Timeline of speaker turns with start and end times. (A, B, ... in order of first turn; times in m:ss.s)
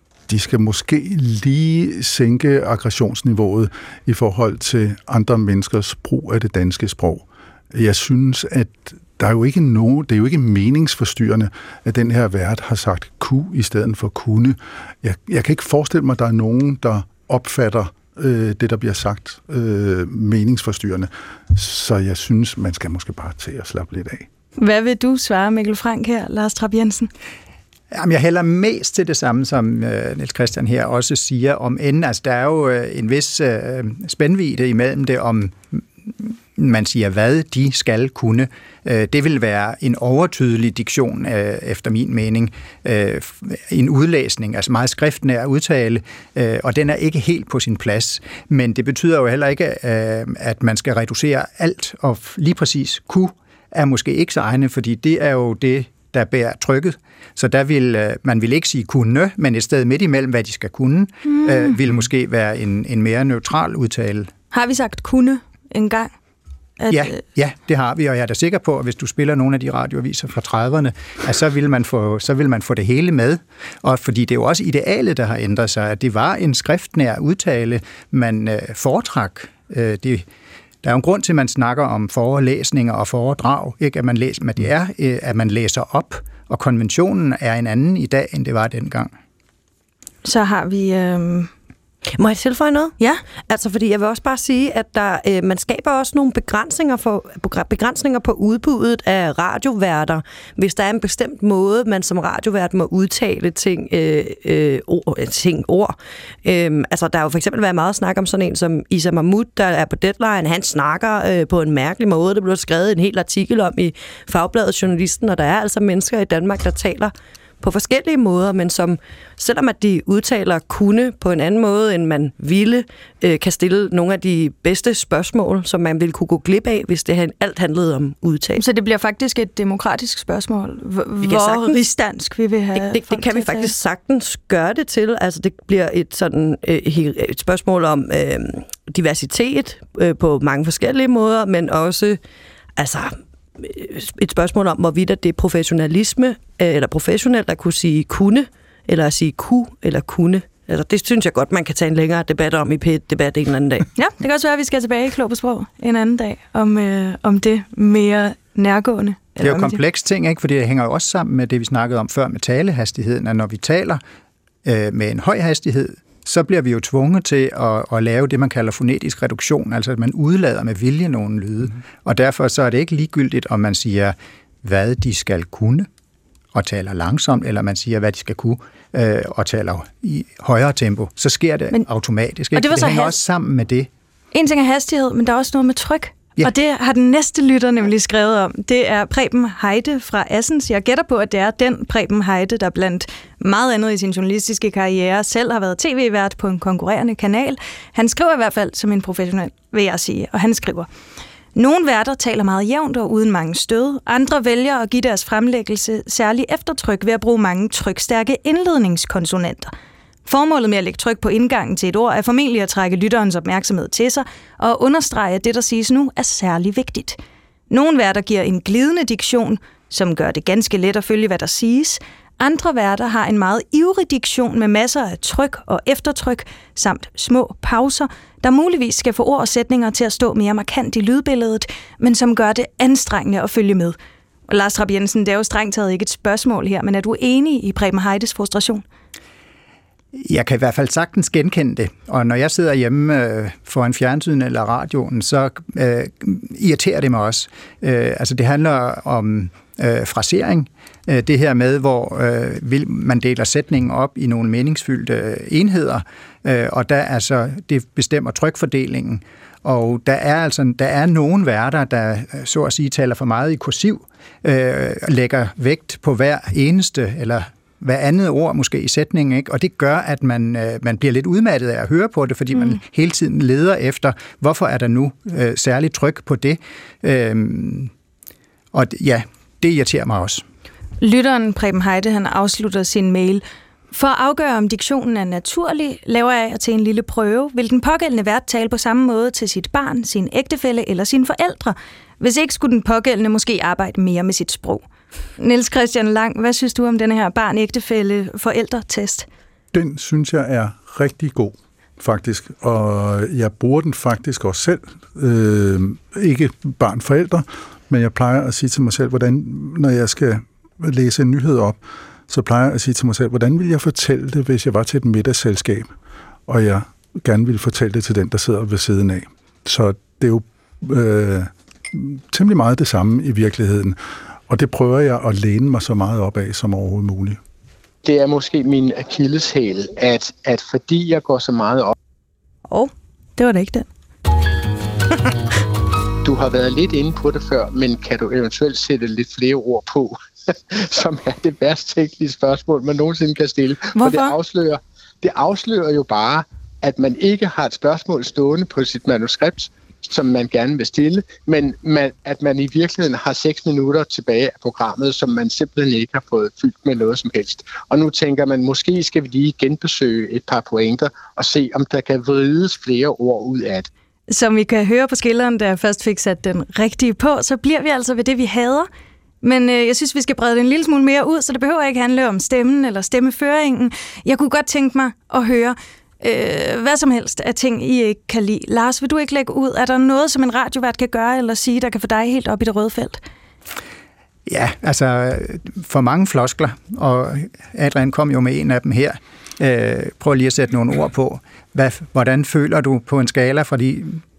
0:00.3-0:24.3 A
0:24.6-0:27.1 B
0:27.9-1:04.3 C
1:01.2-1:01.7 B
1:04.5-1:06.1 B
1:06.8-1:07.2 B
1:06.9-1:20.2 C
1:20.8-1:29.1 C
1:30.2-1:31.5 B
1:32.2-1:33.0 D
1:33.5-2:08.6 D
2:08.6-2:13.7 B
2:11.2-2:11.8 D
2:12.7-2:22.2 D
2:22.8-2:33.9 D
2:34.0-2:39.8 B
2:39.4-2:44.0 C
2:44.6-2:55.9 C
2:56.5-3:03.9 C
3:02.5-3:03.2 B
3:04.3-3:20.9 B
3:21.5-3:29.7 B
3:30.2-3:37.2 B
3:37.7-3:54.0 B
3:54.5-3:58.8 B
4:00.1-4:37.9 C
4:38.7-4:40.4 C
4:41.0-4:54.8 B
4:55.4-4:59.2 B
4:59.7-5:15.9 A
5:16.5-5:27.4 A
5:28.0-5:31.9 E
5:32.7-5:33.9 B
5:36.2-6:03.9 E
5:44.0-5:44.3 B
6:04.3-6:08.9 B
6:09.4-6:23.2 B
6:24.4-6:34.2 C